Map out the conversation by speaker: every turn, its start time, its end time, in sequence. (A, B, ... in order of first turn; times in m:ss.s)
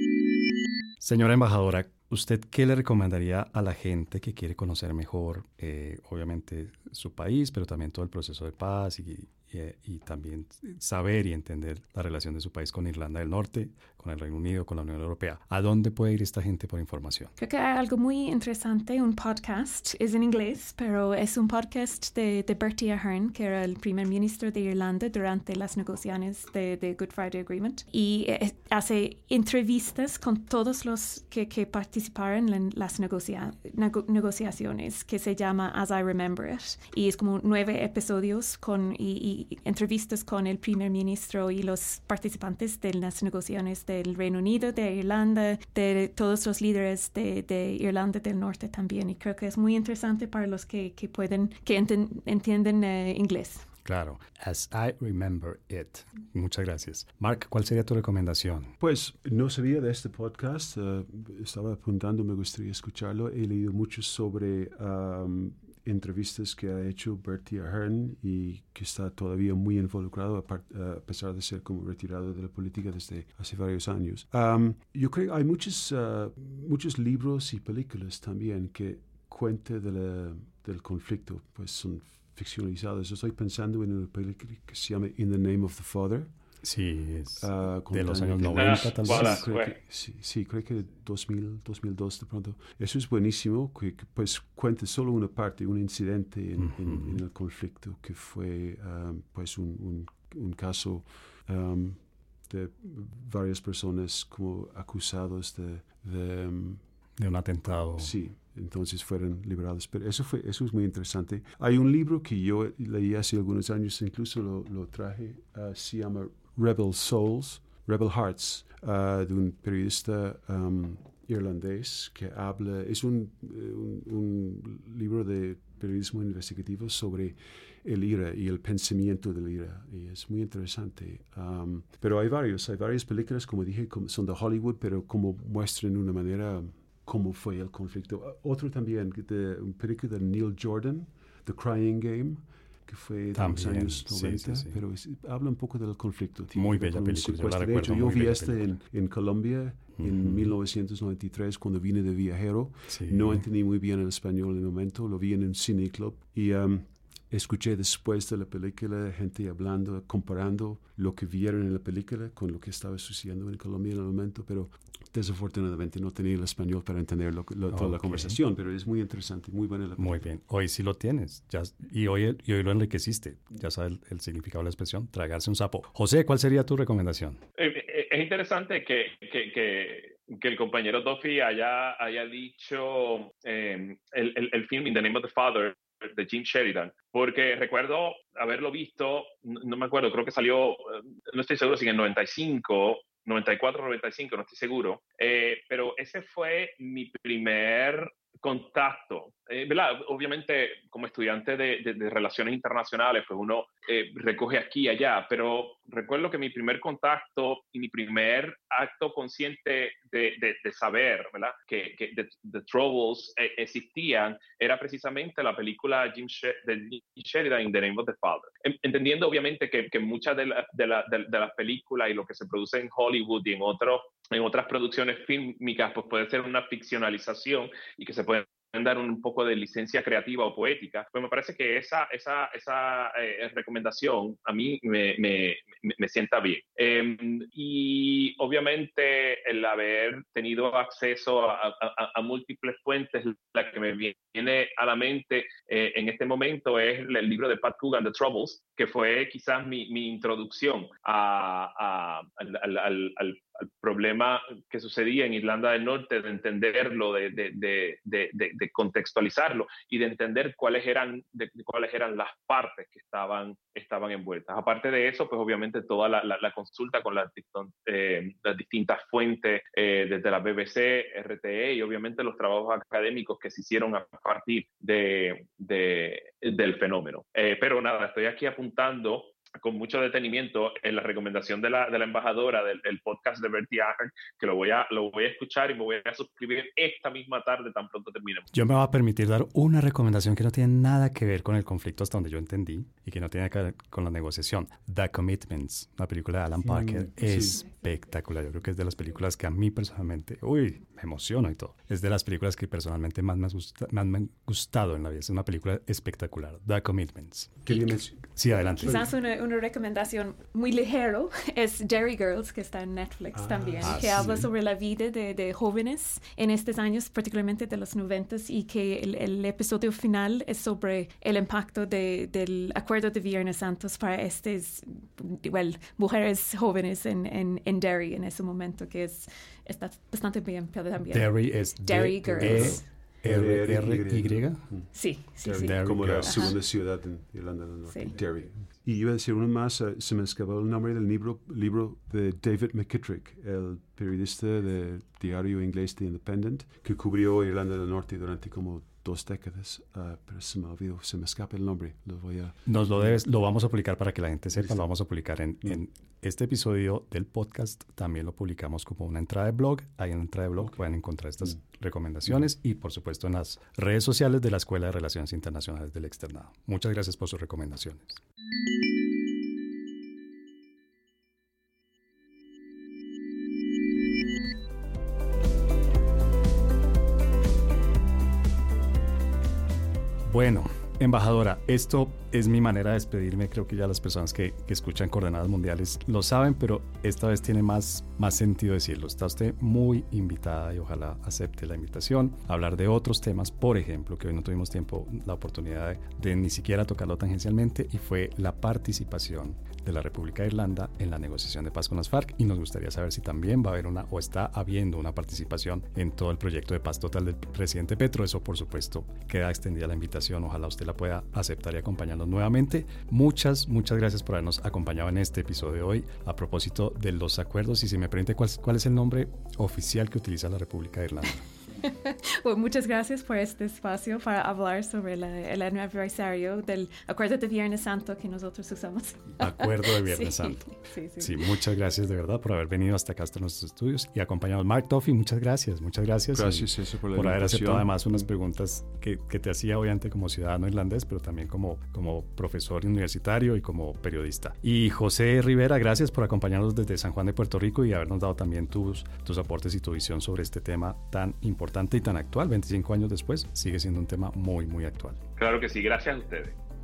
0:01.0-0:17.3 A
0:17.4-0:53.7 B
0:53.8-0:58.7 A
0:58.8-1:26.4 C
1:26.6-1:29.5 A
1:27.4-1:46.8 C
1:28.5-1:29.8 D
1:36.6-1:37.2 A
1:47.2-1:48.1 A
1:48.0-2:50.2 C
2:23.3-2:24.7 A
2:26.5-2:28.6 A
2:30.0-2:30.5 A
2:32.9-2:33.4 A
2:47.7-2:48.4 A
2:50.0-2:57.4 A
2:57.6-4:48.5 D
4:48.5-5:09.1 A
4:56.6-4:57.6 C
5:07.6-5:09.1 C
5:08.8-5:32.9 B
5:13.3-5:14.5 C
5:13.8-5:14.4 A
5:31.1-5:34.9 A
5:32.2-5:53.2 C
5:34.9-5:36.6 B
5:35.5-5:36.5 A
5:37.9-5:38.2 B
5:52.6-6:08.2 A
6:20.2-7:01.4 A
7:01.8-7:11.5 B
7:09.4-7:35.2 A
7:16.3-7:18.3 C
7:35.4-7:36.6 D